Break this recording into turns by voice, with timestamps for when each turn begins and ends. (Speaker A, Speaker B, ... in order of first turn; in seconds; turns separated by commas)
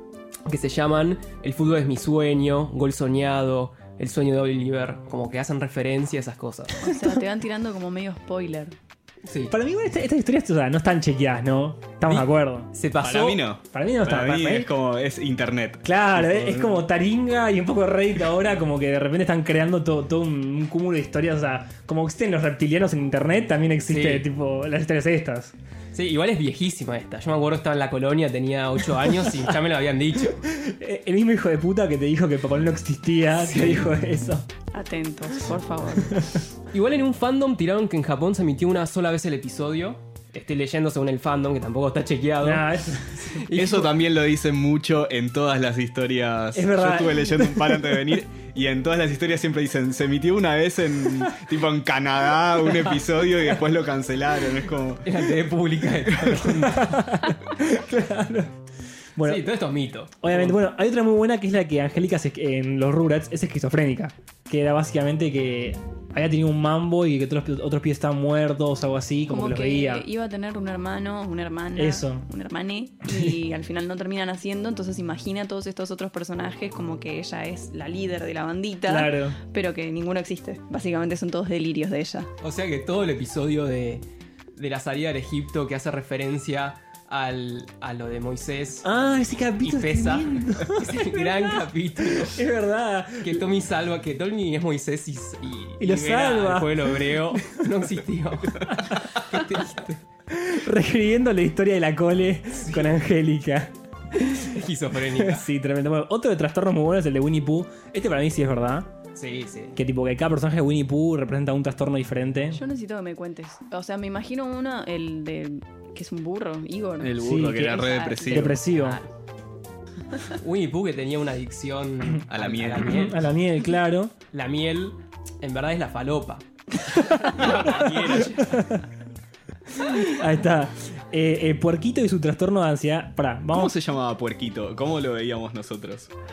Speaker A: 0.5-6.8, Speaker B: 6.8-8.7, Speaker C: 6.8-7.3, Speaker A: 9.2-9.5, Speaker C: 9.5-12.7, Speaker A: 12.0-13.4, Speaker D: 13.0-16.8, Speaker C: 13.7-14.7, Speaker C: 15.8-25.5, Speaker A: 23.9-24.3, Speaker A: 25.9-30.4, Speaker C: 30.5-34.5, Speaker A: 33.5-33.9, Speaker B: 34.7-36.2, Speaker A: 36.7-42.6, Speaker C: 42.4-43.5, Speaker A: 43.3-43.9, Speaker D: 43.5-55.2, Speaker C: 46.5-48.1, Speaker A: 55.0-57.0, Speaker C: 56.5-58.5, Speaker C: 59.1-59.5, Speaker A: 59.2-60.6, Speaker C: 60.2-70.1, Speaker B: 69.3-82.3, Speaker C: 71.7-72.3, Speaker C: 73.0-73.4, Speaker C: 78.8-79.4, Speaker A: 82.4-84.0, Speaker A: 84.5-88.9, Speaker C: 88.8-93.4, Speaker A: 89.6-92.4, Speaker A: 93.2-100.0, Speaker C: 95.8-97.6, Speaker C: 98.8-99.4, Speaker C: 100.3-103.7, Speaker A: 102.5-103.0, Speaker A: 104.1-105.5, Speaker C: 105.1-108.9, Speaker A: 109.1-109.8, Speaker C: 109.8-112.6, Speaker B: 112.5-118.5, Speaker D: 117.0-118.6, Speaker C: 117.2-119.0, Speaker A: 118.6-119.0, Speaker A: 120.3-123.2, Speaker D: 122.3-123.0, Speaker C: 122.8-124.1, Speaker A: 124.3-128.7, Speaker C: 127.1-128.8, Speaker C: 129.7-133.7, Speaker D: 133.5-136.1